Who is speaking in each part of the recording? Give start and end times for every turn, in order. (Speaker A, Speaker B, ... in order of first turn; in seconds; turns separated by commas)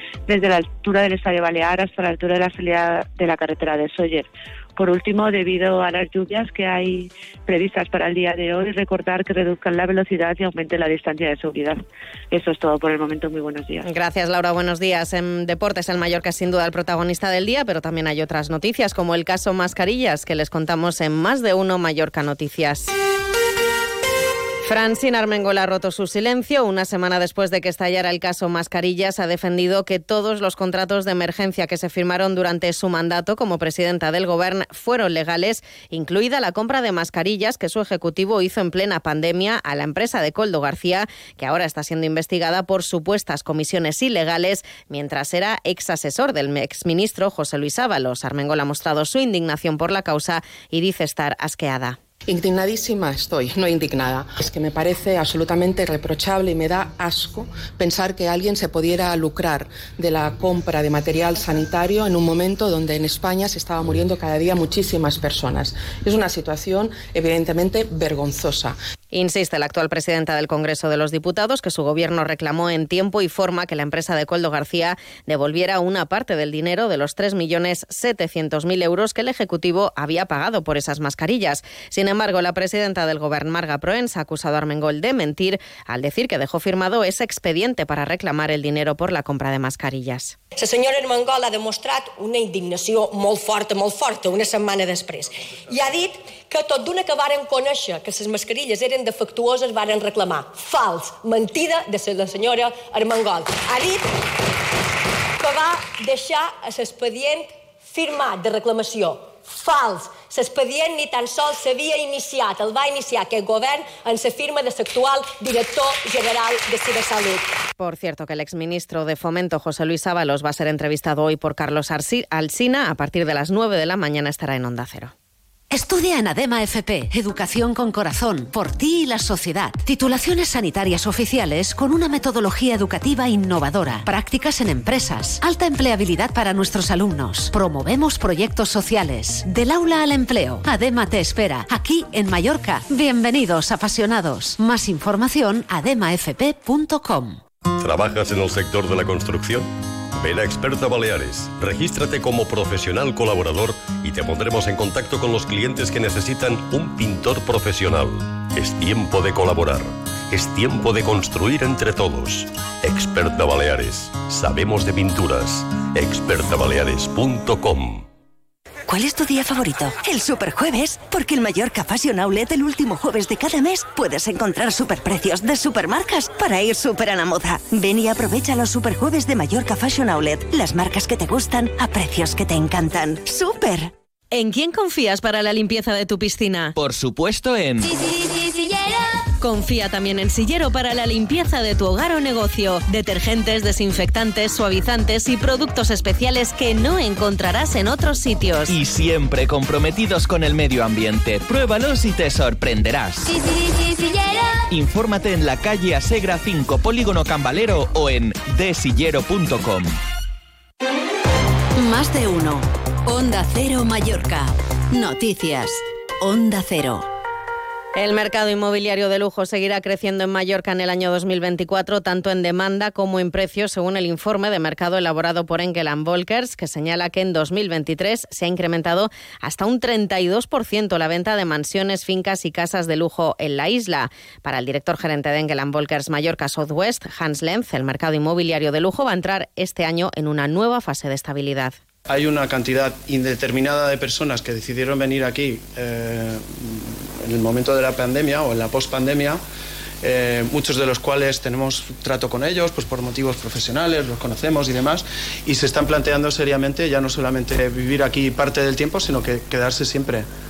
Speaker A: 0.3-13.8, Speaker B: 13.8-22.9, Speaker B: 24.6-52.0, Speaker C: 52.3-68.8, Speaker B: 69.1-90.3, Speaker D: 90.6-104.1, Speaker D: 105.4-117.5, Speaker B: 117.8-125.1, Speaker E: 125.7-147.4, Speaker F: 147.8-168.0, Speaker G: 168.9-183.8, Speaker B: 184.3-186.7, Speaker H: 186.8-187.9, Speaker B: 189.4-198.8, Speaker H: 198.7-203.3, Speaker H: 204.7-209.9, Speaker E: 211.8-217.0, Speaker B: 217.9-241.8, Speaker I: 242.1-249.4, Speaker I: 250.0-260.3